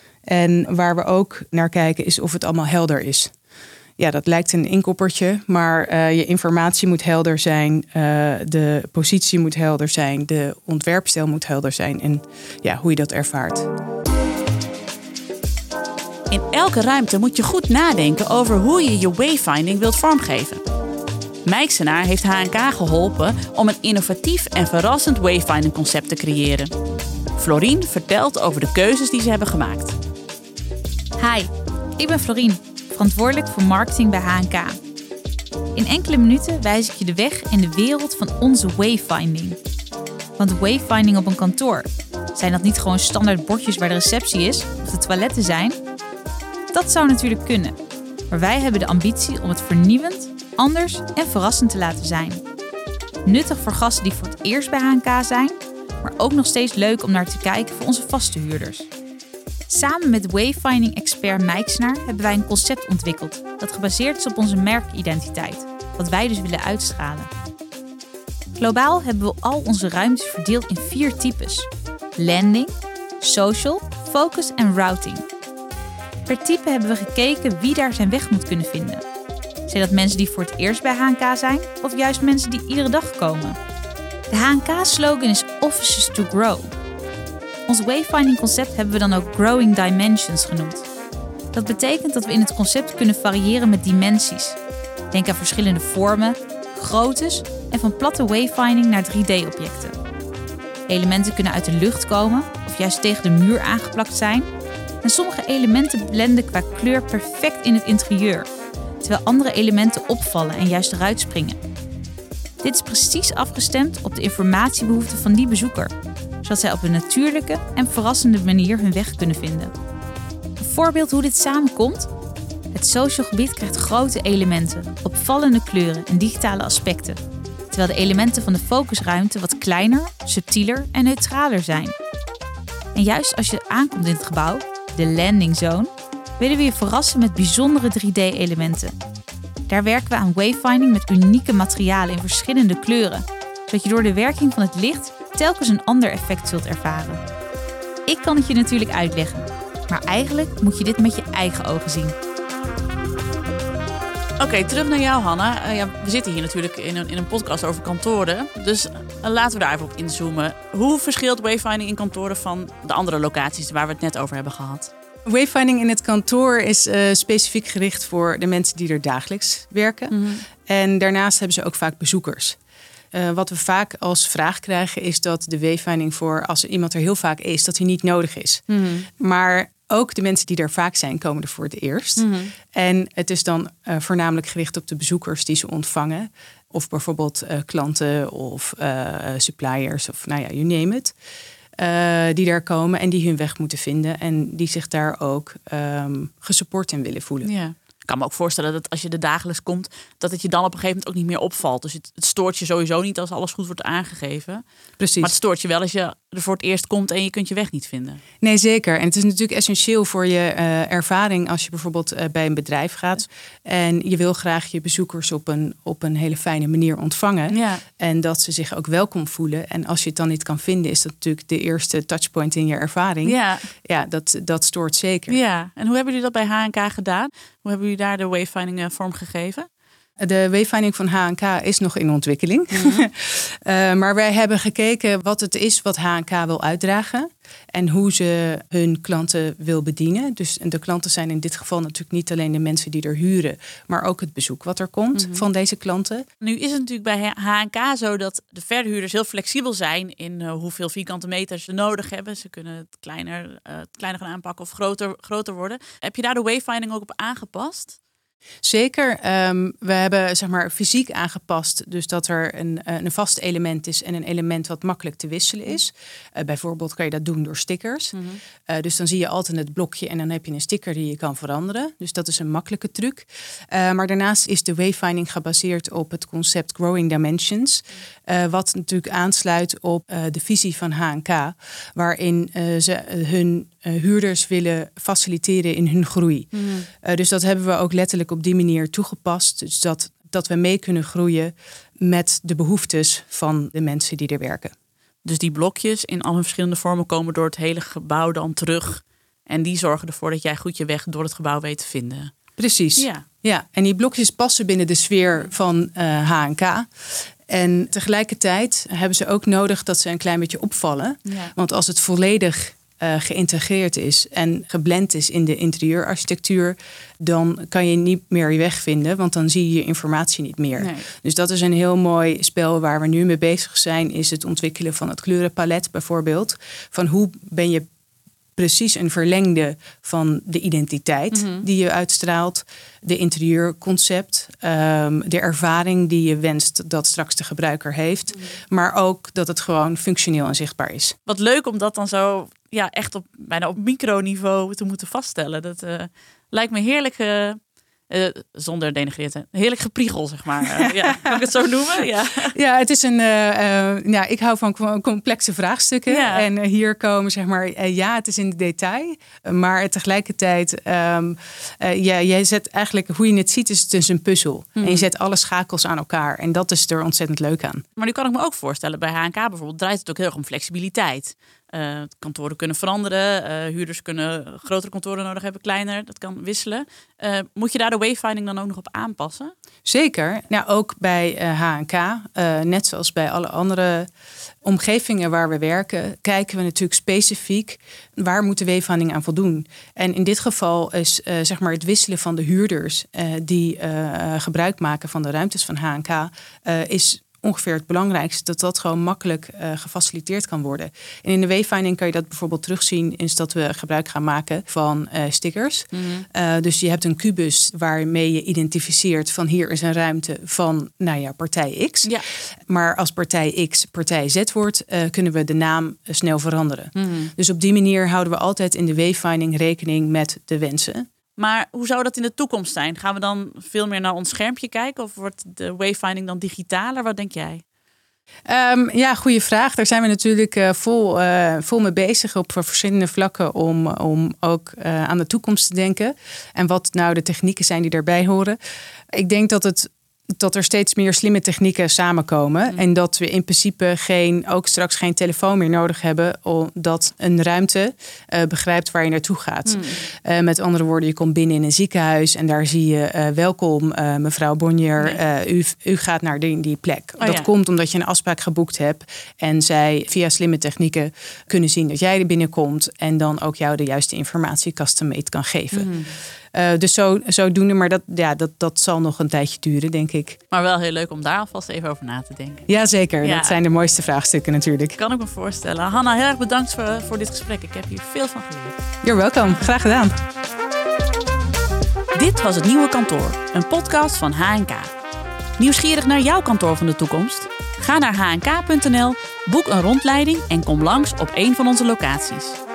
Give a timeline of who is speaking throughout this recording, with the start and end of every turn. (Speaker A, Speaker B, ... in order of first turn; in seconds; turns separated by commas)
Speaker A: 0.3-3.3, Speaker A: 4.0-13.7, Speaker B: 16.3-20.6, Speaker B: 21.4-26.7, Speaker B: 27.4-30.0, Speaker C: 31.2-34.8, Speaker C: 35.8-39.6, Speaker C: 40.4-45.8, Speaker C: 46.7-47.8, Speaker C: 48.3-52.4, Speaker C: 53.2-58.9, Speaker C: 59.7-67.3, Speaker C: 68.5-75.2, Speaker C: 76.3-79.0, Speaker C: 79.7-83.6, Speaker C: 84.3-86.7, Speaker C: 87.7-90.9, Speaker C: 91.5-94.6, Speaker C: 95.1-100.0, Speaker C: 100.9-104.5, Speaker C: 105.0-108.5, Speaker C: 109.0-111.6, Speaker C: 112.6-119.7, Speaker C: 120.6-122.1, Speaker C: 122.7-131.9, Speaker C: 132.9-138.9, Speaker C: 139.7-147.2, Speaker C: 148.1-152.2, Speaker B: 154.4-164.9, Speaker A: 165.3-172.6, Speaker B: 170.1-170.4, Speaker A: 173.1-191.2, Speaker B: 182.2-182.5, Speaker A: 191.8-197.5, Speaker B: 197.4-204.6, Speaker A: 205.0-205.3, Speaker B: 205.2-208.2, Speaker A: 208.4-225.4, Speaker B: 217.5-217.8, Speaker B: 223.2-223.7, Speaker B: 225.3-229.7, Speaker A: 230.2-246.3, Speaker B: 232.7-233.1, Speaker B: 245.2-245.4, Speaker B: 246.4-258.0, Speaker A: 258.6-294.7, Speaker B: 295.2-302.3, Speaker A: 302.6-306.9, Speaker B: 303.0-303.2, Speaker A: 307.5-327.9, Speaker B: 311.3-311.5, Speaker B: 320.8-321.1, Speaker A: 328.6-341.2, Speaker B: 331.3-331.7, Speaker B: 341.3-347.6, Speaker B: 348.1-352.6, Speaker A: 350.8-351.4, Speaker A: 352.4-367.8, Speaker B: 356.1-356.5, Speaker B: 364.8-365.1, Speaker B: 368.0-379.5, Speaker A: 379.9-384.1, Speaker A: 384.6-412.1, Speaker B: 405.9-406.2, Speaker A: 412.7-421.1, Speaker B: 417.0-417.3, Speaker B: 421.4-427.6, Speaker A: 428.5-438.6, Speaker A: 439.1-465.9, Speaker B: 449.7-450.0, Speaker B: 457.2-457.5, Speaker B: 465.7-466.1, Speaker A: 466.5-470.4, Speaker B: 470.5-472.7, Speaker A: 472.7-475.0, Speaker B: 473.2-473.6, Speaker B: 475.0-478.8, Speaker A: 479.0-480.2, Speaker B: 482.1-484.9, Speaker B: 485.6-492.6